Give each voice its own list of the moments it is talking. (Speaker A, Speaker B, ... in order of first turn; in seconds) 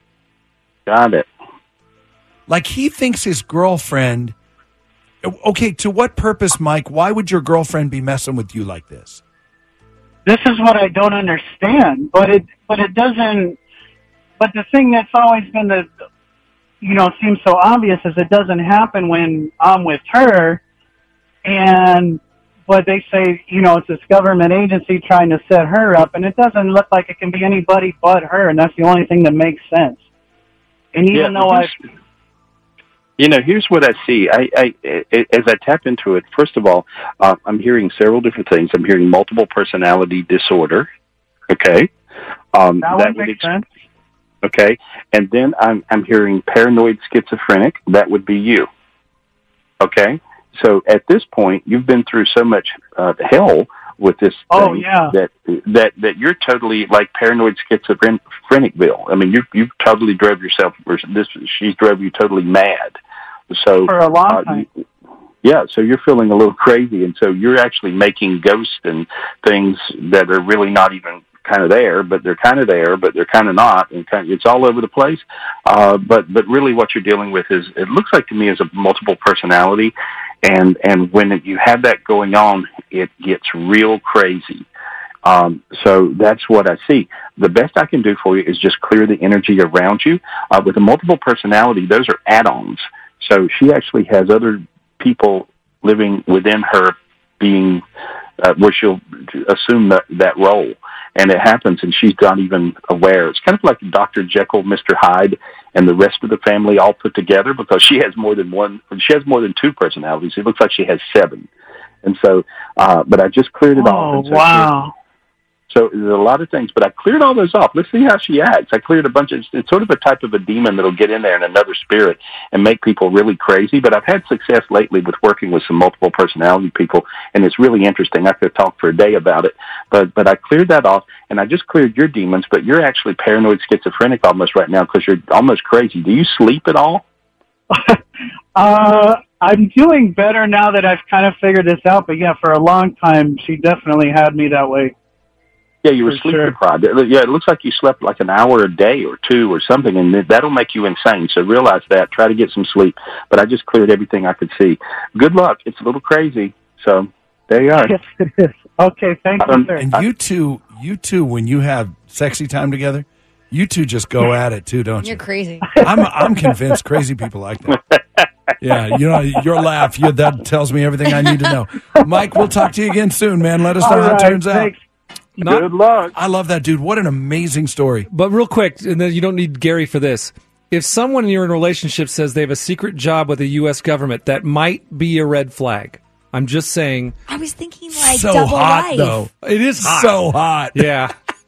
Speaker A: 0.8-1.3, 31.1-31.7, 33.2-40.9, 41.5-41.9, 42.5-43.5, 44.4-48.7, 49.8-63.0, 63.5-64.6, 65.4-79.9, 80.4-84.7, 85.2-97.8, 98.4-111.5, 112.0-114.7, 115.7-137.0, 145.8-157.9, 159.4-159.8, 167.7-168.3, 175.4-176.1
Speaker B: 2.5-4.3, 5.2-9.2, 159.8-165.2, 165.8-167.8, 168.6-174.7, 176.1-178.1, 187.9-190.9
Speaker C: 10.2-13.6, 14.4-15.9, 16.8-20.6, 21.4-30.0, 30.9-31.7, 42.8-43.6, 54.5-55.1, 63.9-64.6, 113.7-114.9, 137.7-138.0, 138.6-144.9, 146.1-146.5, 157.8-159.8, 173.8-174.8
Speaker D: 165.0-165.8, 171.1-171.5, 187.3-189.2
Speaker E: 175.4-175.7, 178.1-187.2, 189.3-191.1